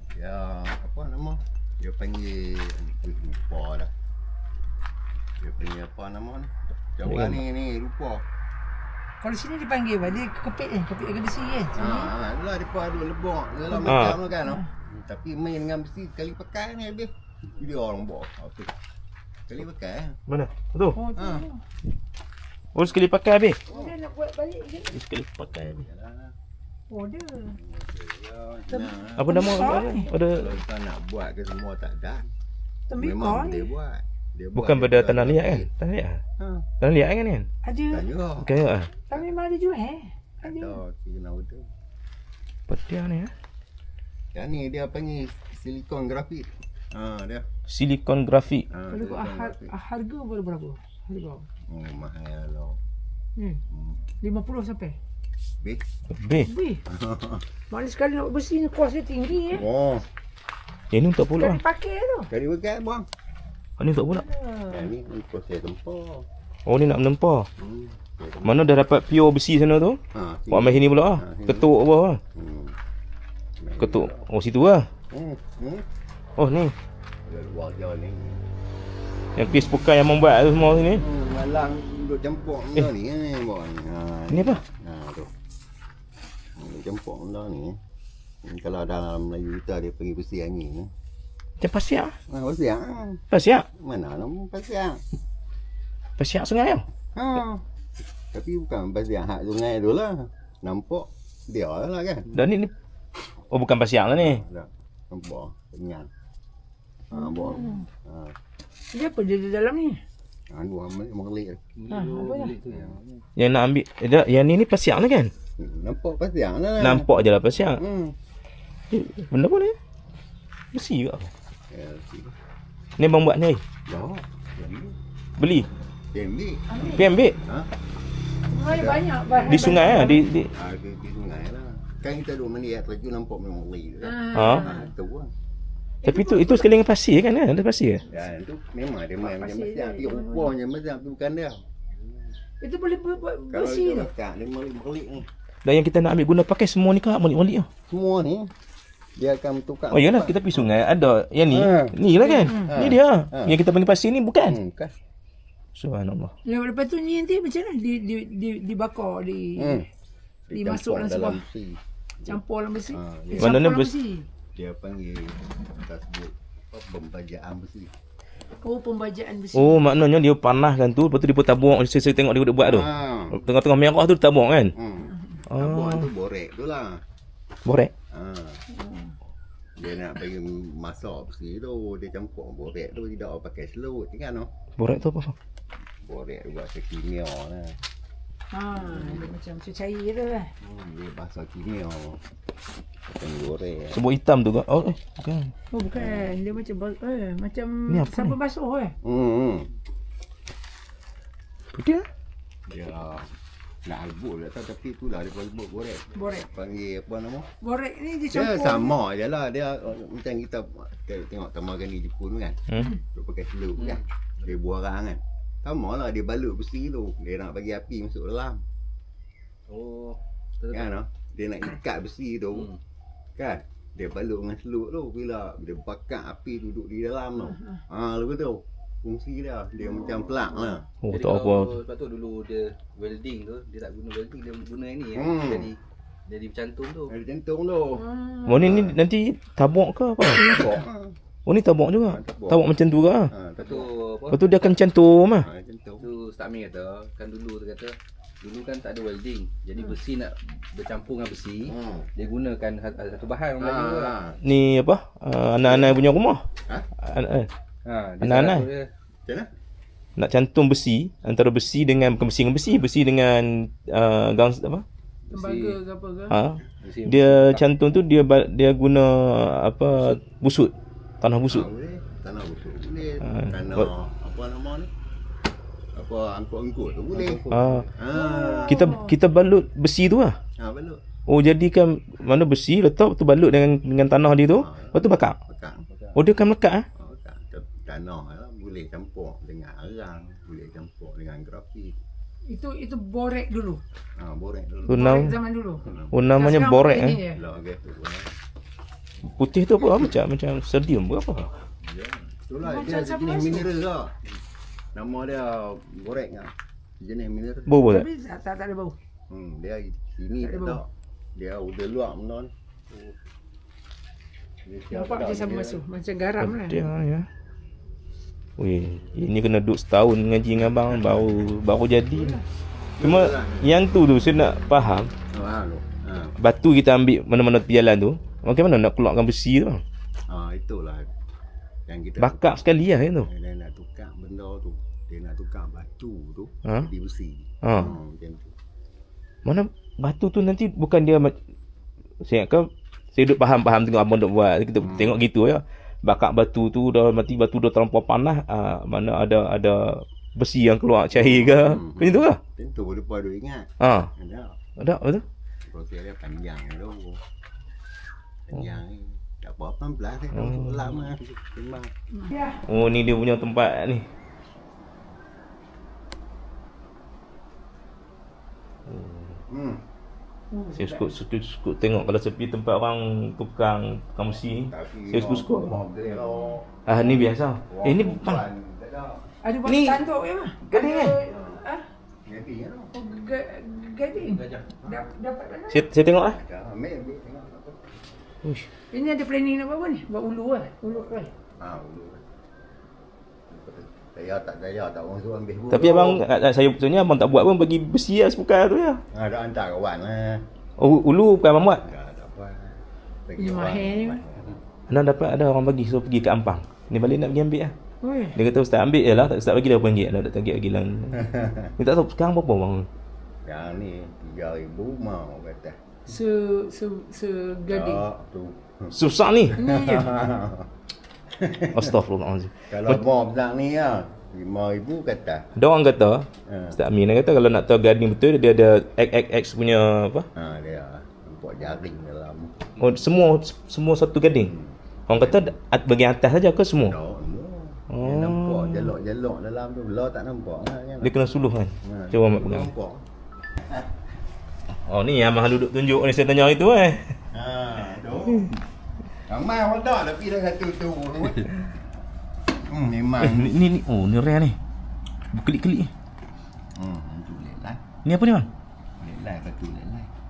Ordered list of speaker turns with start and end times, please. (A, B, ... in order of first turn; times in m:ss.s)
0:00.1-0:03.9 A
0:05.4-0:08.2 A
0:07.0-0:07.4 B
0:09.2-0:12.1 C
0:11.7-0:18.7 A
0:13.7-0:14.6 C
0:13.8-0:14.2 B
0:19.5-0:20.2 A
0:20.3-0:21.0 B
0:20.9-0:21.6 C
0:21.1-0:21.4 A
0:22.7-0:23.6 B
0:23.7-0:23.9 A
0:23.7-0:25.0 C
0:24.9-0:25.9 B
0:25.6-0:26.3 A
0:26.9-0:27.6 C
0:27.5-0:32.3 A
0:28.7-0:30.1 C
0:29.2-0:30.5 B
0:32.9-0:33.7 C
0:32.9-0:35.7 A
0:34.5-0:36.2 B
0:36.4-0:36.6 A
0:36.8-0:37.5 B
0:37.6-0:38.0 C
0:37.9-0:38.5 A
0:38.4-0:38.9 B
0:39.1-0:40.8 C
0:40.4-0:41.7 A
0:42.7-0:43.3 B
0:44.3-0:47.4 A
0:47.7-0:48.7 B
0:48.7-0:49.7 A
0:48.9-0:51.4 C
0:51.7-0:52.8 A
0:53.4-0:53.6 C
0:53.7-0:54.0 A
0:54.2-0:55.0 C
0:55.6-0:55.8 A
0:56.1-0:56.5 B
0:56.4-0:56.8 C
0:56.9-0:57.4 A
0:57.7-0:59.6 C
0:59.5-1:00.1 A
1:00.9-1:01.6 B
1:01.4-1:02.3 C
1:02.3-1:03.1 A
1:03.8-1:04.2 B
1:04.1-1:04.9 C
1:04.7-1:06.3 A
1:06.6-1:07.5 B
1:07.6-1:08.6 A
1:08.4-1:12.2 B
1:10.1-1:11.7 A
1:12.3-1:12.8 A
1:13.6-1:14.3 A
1:13.8-1:14.9 B
1:15.1-1:15.8 A
1:16.4-1:16.7 B
1:17.2-1:18.4 A
1:19.4-1:21.0 B
1:20.9-1:25.3 A
1:24.3-1:24.6 B
1:26.6-1:27.8 A
1:28.4-1:30.9 A
1:31.6-1:32.2 B
1:32.3-1:35.0 A
1:33.3-1:33.6 B
1:36.2-1:36.8 B
1:37.1-1:37.6 A
1:38.3-1:42.3 A
1:42.3-1:42.7 B
1:43.5-1:44.4 B
1:44.1-1:46.1 A
1:47.1-1:48.4 A
1:47.1-1:47.9 C
1:48.9-1:50.0 C
1:50.5-1:51.6 A
1:51.8-1:53.0 D
1:51.9-1:52.5 C
1:52.6-1:53.2 A
1:53.4-1:55.3 B
1:55.6-1:57.1 A
1:56.8-1:57.8 B
1:57.8-1:58.2 A
1:58.9-1:59.8 B
2:00.7-2:01.3 B
2:01.7-2:02.3 A
2:03.0-2:03.6 B
2:03.8-2:05.0 A
2:05.4-2:05.7 B
2:06.1-2:07.7 A
2:06.7-2:07.1 C
2:06.9-2:07.4 B
2:08.5-2:10.2 C
2:08.6-2:15.3 A
2:09.5-2:10.5 B
2:14.0-2:14.9 C
2:14.3-2:14.6 B
2:16.0-2:16.7 C
2:16.0-2:18.0 B
2:18.1-2:22.1 A
2:19.2-2:20.5 C
2:22.6-2:24.1 C
2:23.5-2:25.3 A
2:25.6-2:27.7 B
2:27.9-2:28.5 A
2:29.2-2:30.7 A
2:29.9-2:34.6 B
2:31.5-2:32.0 A
2:32.2-2:32.7 C
2:32.5-2:33.6 A
2:34.5-2:34.9 A
2:35.7-2:36.3 B
2:36.4-2:39.8 C
2:39.6-2:39.8 A
2:40.5-2:42.4 A
2:40.5-2:41.4 C
2:42.2-2:44.2 C
2:42.9-2:43.6 A
2:43.4-2:43.9 B
2:44.5-2:47.9 A
2:48.6-2:49.9 C
2:49.5-2:54.7 B
2:52.6-2:53.4 A
2:54.7-2:57.0 A
2:55.1-2:55.4 C
2:55.5-2:56.1 B
2:57.6-2:57.9 B
2:58.1-2:58.6 A
2:58.7-2:59.2 C
2:59.8-3:04.5 A
3:04.8-3:05.3 B
3:06.0-3:07.8 A
3:08.5-3:10.5 C
3:08.7-3:09.3 A
3:10.6-3:12.2 A
3:13.1-3:14.0 A
3:13.9-3:15.5 B
3:15.7-3:18.9 C
3:15.9-3:16.3 A
3:17.9-3:18.3 B
3:19.0-3:19.7 A
3:21.7-3:22.1 B
3:22.7-3:23.3 A
3:23.8-3:27.5 A
3:26.1-3:26.5 C
3:27.6-3:28.9 C
3:28.3-3:38.6 A
3:33.8-3:34.5 D
3:39.7-3:40.9 D
3:40.7-3:42.7 A
3:42.5-3:42.8 D
3:43.4-3:50.8 A
3:47.5-3:47.8 C
3:51.0-3:51.8 B
3:51.1-3:57.1 D
3:55.1-3:55.7 A
3:57.1-3:59.0 A
3:58.0-3:58.7 C
3:58.4-4:00.7 B
4:00.4-4:00.8 C
4:00.4-4:01.1 A
4:01.4-4:03.3 B
4:02.0-4:02.6 A
4:03.3-4:03.9 A
4:03.6-4:04.8 D
4:04.3-4:05.5 B
4:05.4-4:06.1 A
4:06.0-4:14.1 D
4:11.6-4:12.1 A
4:13.6-4:14.4 A
4:14.4-4:16.4 B
4:15.6-4:16.1 A
4:17.0-4:17.5 B
4:17.8-4:18.9 D
4:18.2-4:18.7 B
4:20.2-4:24.8 B
4:25.3-4:25.8 D
4:25.3-4:26.4 C
4:26.3-4:31.7 B
4:26.8-4:27.6 D
4:31.5-4:34.9 A
4:33.2-4:33.9 B
4:35.9-4:39.0 A
4:37.1-4:38.0 D
4:37.5-4:37.9 B
4:38.1-4:39.1 C
4:38.7-4:40.4 B
4:40.6-4:41.0 A
4:41.3-4:45.4 B
4:44.5-4:46.2 A
4:46.1-4:46.8 B
4:46.9-4:52.0 A
4:52.5-4:53.8 C
4:54.2-4:56.1 A
4:54.9-4:55.3 B
4:54.9-4:57.4 C
4:56.1-4:57.2 B
4:57.3-4:58.4 A
4:59.2-5:01.6 B
4:59.8-5:00.1 A
5:01.8-5:04.2 A
5:02.6-5:03.7 C
5:04.9-5:07.8 A
5:07.7-5:08.1 B
5:07.8-5:09.0 C
5:09.3-5:12.5 A
5:10.4-5:10.8 C
5:14.6-5:15.8 A
5:14.9-5:16.8 C
5:16.4-5:17.3 B
5:18.6-5:22.4 B
5:22.1-5:22.4 C
5:23.0-5:23.8 A
5:23.0-5:25.1 B
5:25.3-5:26.3 A
5:26.4-5:29.8 B
5:30.3-5:31.1 A
5:31.9-5:32.6 A
5:32.2-5:33.3 B
5:33.2-5:38.5 A
5:37.6-5:37.9 B
5:39.4-5:41.4 B
5:42.2-5:52.4 B
5:44.8-5:45.2 A
5:51.1-5:54.6 A
5:53.8-5:54.1 B
5:54.8-5:55.2 B
5:55.6-5:57.2 A
5:58.5-6:01.9 A
6:00.3-6:00.9 B
6:02.1-6:02.6 C
6:02.6-6:04.1 B
6:08.9-6:09.4 B
6:09.5-6:09.8 A
6:10.5-6:11.1 C
6:10.8-6:15.8 B
6:14.6-6:16.8 A
6:16.8-6:18.4 B
6:17.7-6:19.3 A
6:19.4-6:21.9 C
6:19.6-6:20.0 B
6:20.6-6:21.2 B
6:21.2-6:21.6 A
6:22.2-6:22.9 A
6:22.9-6:25.9 C
6:24.1-6:24.7 D
6:25.7-6:26.4 B
6:26.1-6:27.8 A
6:28.9-6:31.3 C
6:31.6-6:32.2 A
6:33.5-6:36.2 A
6:35.7-6:39.0 B
6:39.1-6:40.4 A
6:40.8-6:41.8 B
6:41.8-6:44.6 A
6:43.4-6:44.2 C
6:44.9-6:47.7 B
6:48.0-6:48.4 C
6:48.3-6:52.9 B
6:51.1-6:51.7 A
6:53.4-6:55.8 A
6:56.1-6:58.0 C
6:57.7-7:00.7 A
6:58.9-6:59.6 B
6:59.6-7:00.1 C
7:01.3-7:02.0 A
7:01.7-7:03.0 B
7:02.7-7:05.5 A
7:05.6-7:10.3 B
7:06.4-7:06.8 A
7:10.3-7:12.7 A
7:12.8-7:14.5 B
7:14.4-7:15.5 A
7:15.1-7:17.0 B
7:16.8-7:21.2 A
7:17.9-7:18.9 B
7:21.0-7:22.7 B
7:21.8-7:23.0 A
7:23.6-7:23.9 A
7:24.8-7:27.2 B
7:27.3-7:28.6 A
7:29.2-7:31.5 A
7:32.6-7:33.5 A
7:33.2-7:34.6 B
7:35.3-7:35.9 B
7:36.7-7:37.8 A
7:38.0-7:38.5 B
7:39.0-7:40.1 A